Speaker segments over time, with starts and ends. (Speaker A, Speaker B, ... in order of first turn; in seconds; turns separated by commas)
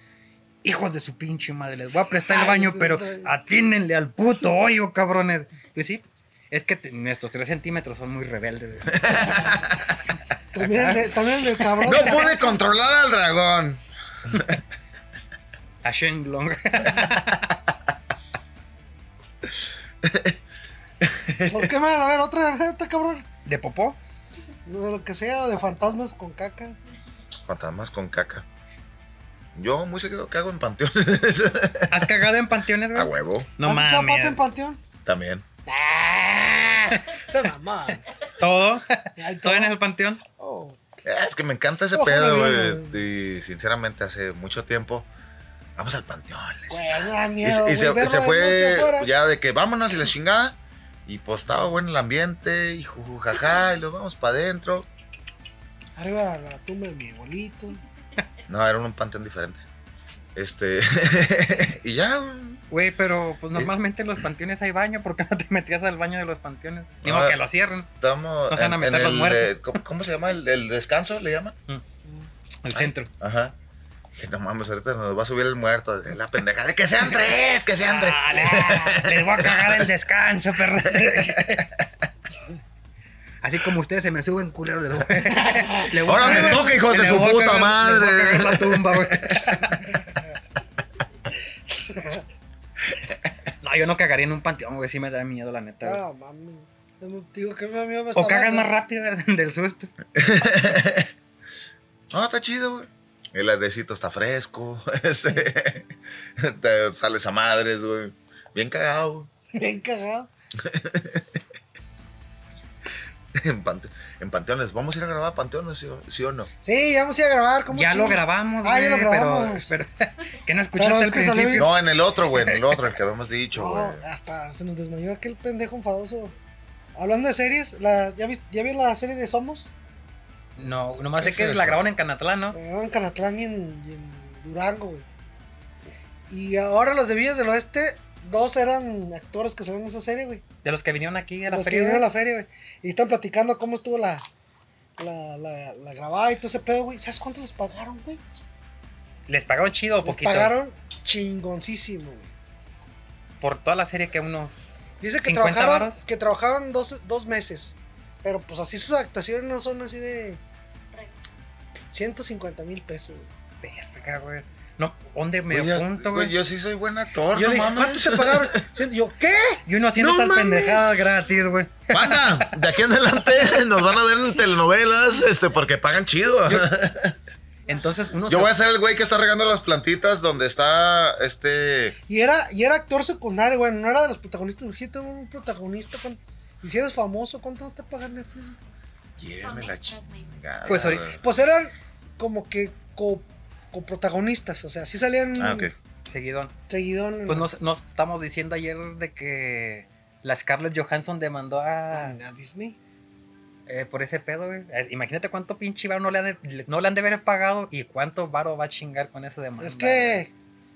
Speaker A: 0.6-9.4, Speaker B: 2.1-3.3, Speaker C: 8.9-10.0, Speaker B: 9.2-9.6, Speaker B: 10.5-12.6, Speaker A: 10.6-12.0, Speaker C: 11.8-14.6, Speaker A: 15.8-17.6, Speaker C: 19.6-20.4, Speaker C: 21.0-21.7, Speaker B: 21.5-23.2, Speaker A: 23.4-24.0, Speaker B: 24.6-26.8, Speaker C: 27.5-28.4, Speaker C: 29.6-32.2, Speaker A: 31.9-34.4, Speaker C: 32.9-33.5, Speaker B: 33.6-34.8, Speaker C: 35.0-35.5, Speaker B: 35.6-38.1, Speaker A: 38.4-40.2, Speaker B: 39.2-39.7, Speaker B: 40.4-40.8, Speaker C: 41.0-45.1, Speaker B: 41.9-43.0, Speaker C: 45.8-54.9, Speaker B: 46.7-49.1, Speaker B: 56.0-57.8, Speaker C: 58.5-59.6, Speaker C: 60.3-62.6, Speaker A: 62.7-67.9, Speaker C: 67.0-67.4, Speaker C: 68.0-71.6, Speaker A: 68.5-69.6, Speaker A: 72.6-73.1, Speaker C: 72.7-73.5, Speaker C: 74.1-79.8, Speaker A: 77.8-81.7, Speaker C: 81.0-81.6, Speaker A: 83.4-89.9, Speaker B: 85.5-86.8, Speaker C: 86.0-89.6, Speaker B: 91.7-92.2, Speaker A: 93.6-96.0, Speaker B: 95.8-98.7, Speaker A: 98.1-99.9, Speaker C: 100.1-101.1, Speaker C: 102.1-109.3, Speaker B: 109.5-110.3, Speaker C: 110.6-111.4, Speaker C: 113.3-116.5, Speaker B: 116.6-119.7, Speaker A: 117.7-121.7, Speaker B: 120.8-121.7, Speaker C: 121.5-124.0, Speaker A: 122.3-122.8, Speaker B: 123.5-126.3, Speaker B: 127.0-129.7, Speaker A: 130.6-132.6, Speaker C: 131.2-131.8, Speaker B: 132.5-135.1, Speaker B: 136.3-140.4, Speaker A: 140.6-142.1, Speaker B: 141.5-144.3, Speaker B: 145.0-148.2, Speaker A: 149.3-150.6, Speaker B: 150.0-152.3, Speaker A: 153.4-156.0, Speaker B: 155.0-160.4, Speaker B: 161.9-163.3, Speaker A: 163.6-166.3, Speaker C: 165.5-168.7, Speaker B: 167.3-171.0, Speaker A: 169.7-172.6, Speaker C: 171.9-177.2, Speaker A: 177.7-178.5, Speaker C: 178.2-182.0, Speaker B: 182.1-188.6, Speaker C: 189.2-191.2, Speaker A: 190.7-191.1, Speaker B: 190.8-195.7, Speaker C: 195.4-195.7, Speaker A: 196.1-196.5, Speaker B: 196.7-197.5, Speaker A: 197.3-202.2, Speaker B: 201.9-202.8, Speaker A: 203.7-210.2, Speaker B: 209.6-210.3